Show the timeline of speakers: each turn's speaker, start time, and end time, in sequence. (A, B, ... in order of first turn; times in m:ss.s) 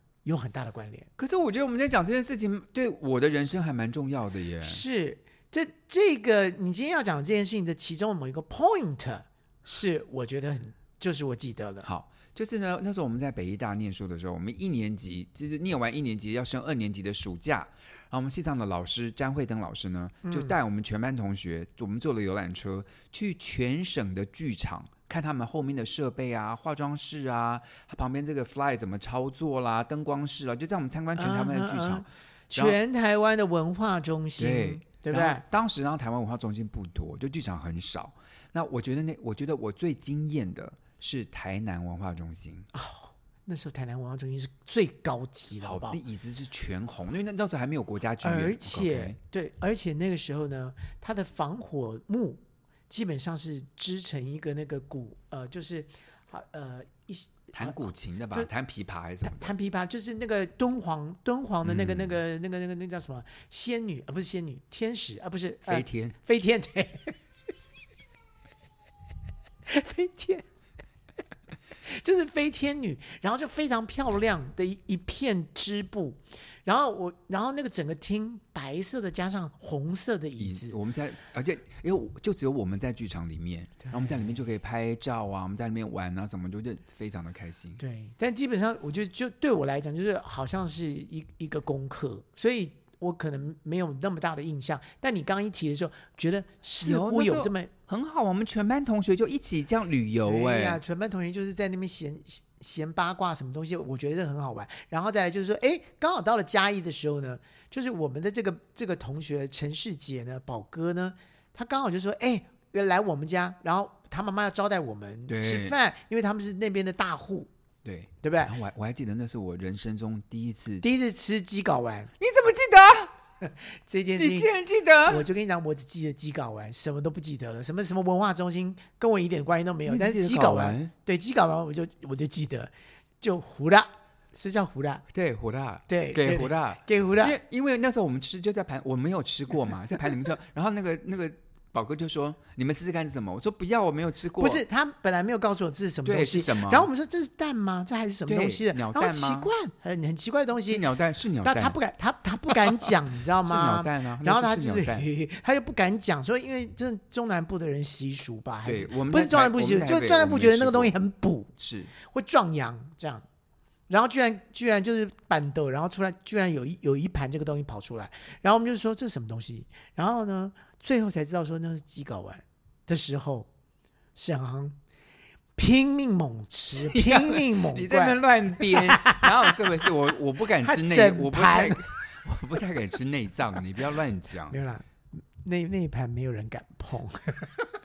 0:00.2-0:01.1 A
0:01.2-0:04.8 B
0:04.6-0:11.9 A
0:11.8-0:32.8 B
0:20.2-0:20.5 A
0:31.2-0:35.4 A
0:34.4-0:42.7 B
0:42.7-0:46.0 A
0:45.6-0:49.2 B
0:48.2-0:57.8 A
0:57.5-0:59.5 B
0:59.2-1:07.2 A
1:01.6-1:02.2 B
1:05.6-1:06.2 B
1:09.6-1:10.4 A
1:11.8-1:20.8 A
1:20.4-1:27.8 B
1:23.8-1:24.3 A
1:27.8-1:37.7 A
1:36.8-1:40.8 B
1:40.2-1:57.5 A
1:55.3-1:55.8 B
1:57.8-2:00.8 B
1:58.2-1:58.5 A
2:00.8-2:02.1 A
2:02.2-2:03.1 B
2:03.4-2:04.5 A
2:04.1-2:05.3 B
2:05.0-2:15.0 A
2:09.8-2:10.9 B
2:15.1-2:24.6 B
2:15.9-2:17.4 A
2:24.4-2:30.8 A
2:26.0-2:26.9 B
2:28.3-2:29.5 B
2:30.7-2:31.8 B
2:31.4-2:43.2 A
2:33.4-2:35.1 B
2:38.6-2:40.9 B
2:41.6-2:41.9 B
2:43.9-2:53.5 A
2:54.1-2:54.8 A
2:55.6-2:59.6 A
2:56.9-3:04.6 B
3:00.6-3:01.8 A
3:04.5-3:04.9 A
3:05.4-3:07.6 A